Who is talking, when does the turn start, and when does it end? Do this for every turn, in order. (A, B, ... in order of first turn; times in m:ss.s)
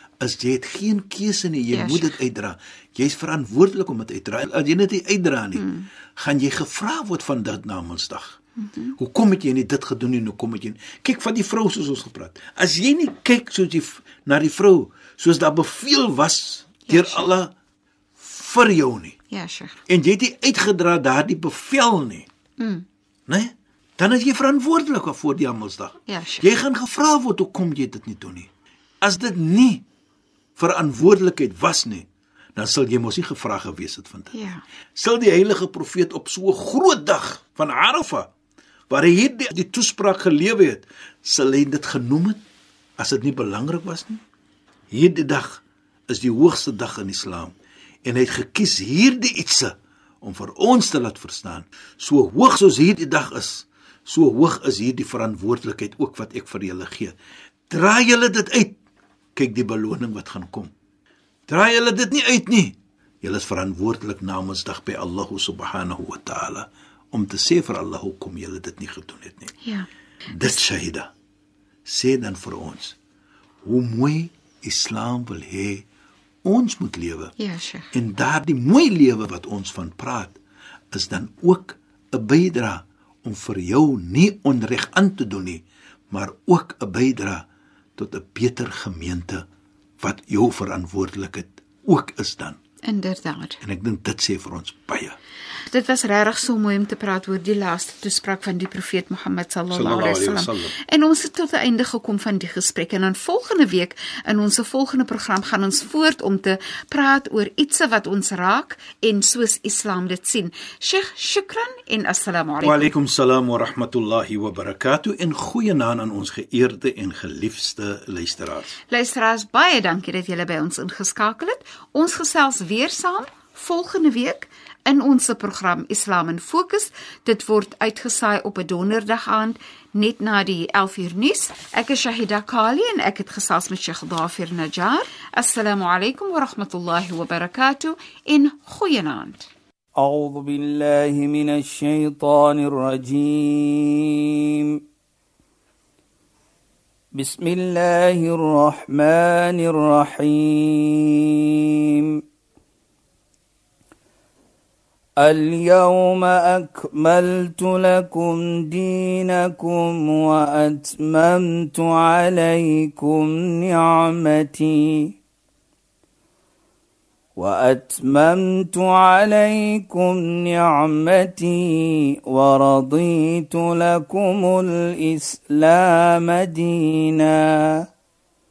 0:00.2-0:08.4 A
0:01.7-0:02.2 B
0:05.6-0:05.9 B
0:08.6-0:09.0 B
0:09.0-0:17.5 A
0:16.8-0:17.3 B
0:18.2-0:19.2 A
0:19.3-0:19.8 B
0:19.9-0:22.3 A
0:22.6-0:22.8 B
0:23.3-0:28.5 A
0:26.1-0:26.5 B
0:29.0-0:29.8 A
0:30.6-0:34.3 A
0:34.3-0:34.6 B
0:35.0-0:38.3 A
0:38.9-0:42.4 A
0:43.0-0:44.2 A
0:44.9-0:57.1 A
0:57.7-0:58.8 A
0:59.3-1:00.7 A
1:01.5-1:09.5 A
1:09.6-1:09.9 B
1:10.3-1:11.1 A
1:11.8-1:13.0 A
1:13.6-1:15.8 A
1:16.4-1:17.3 A
1:17.4-1:17.9 B
1:17.9-1:20.4 A
1:20.9-1:27.4 A
1:28.0-1:29.4 A
1:30.0-1:32.6 A
1:32.8-1:33.6 B
1:33.6-1:35.2 A
1:35.7-1:52.9 B
1:39.7-1:40.7 A
1:52.6-1:58.8 A
1:58.9-2:19.5 B
2:20.0-2:24.8 C
2:27.1-2:32.2 C
2:35.2-2:45.2 C
2:47.4-2:57.8 C